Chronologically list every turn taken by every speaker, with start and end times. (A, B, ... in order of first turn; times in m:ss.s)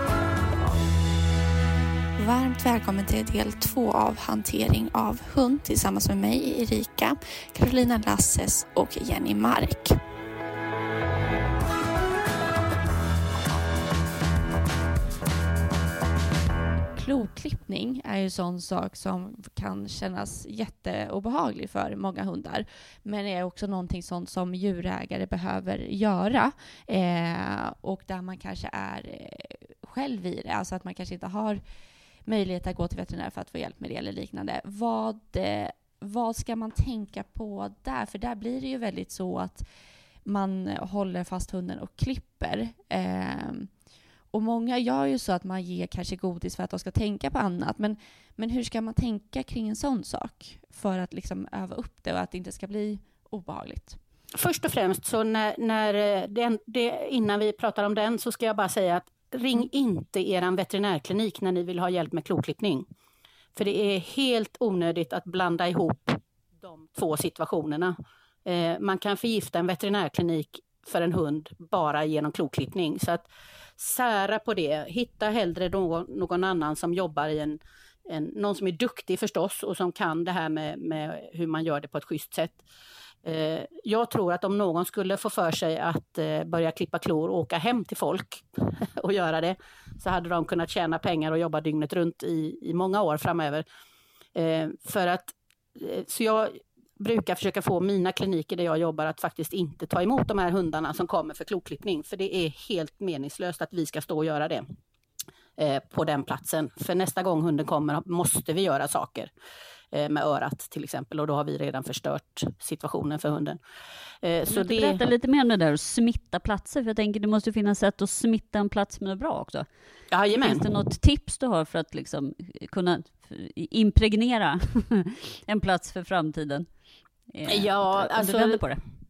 0:02.2-0:10.0 A
0:17.0-0:31.6 A
0:32.2-0:39.6 A
0:40.2-0:43.7 A
0:44.3-0:54.0 A
0:54.3-1:02.8 B
1:03.5-1:07.9 B
1:08.4-1:13.3 B
1:13.8-1:22.6 B
1:23.2-1:33.6 B
1:34.3-1:44.6 B
1:45.6-1:49.3 B
1:49.9-1:53.6 B
1:54.2-1:55.0 B
1:54.5-1:59.7 C
2:00.1-2:00.7 B
2:00.4-2:06.7 C
2:07.3-2:08.8 C
2:07.5-2:08.6 B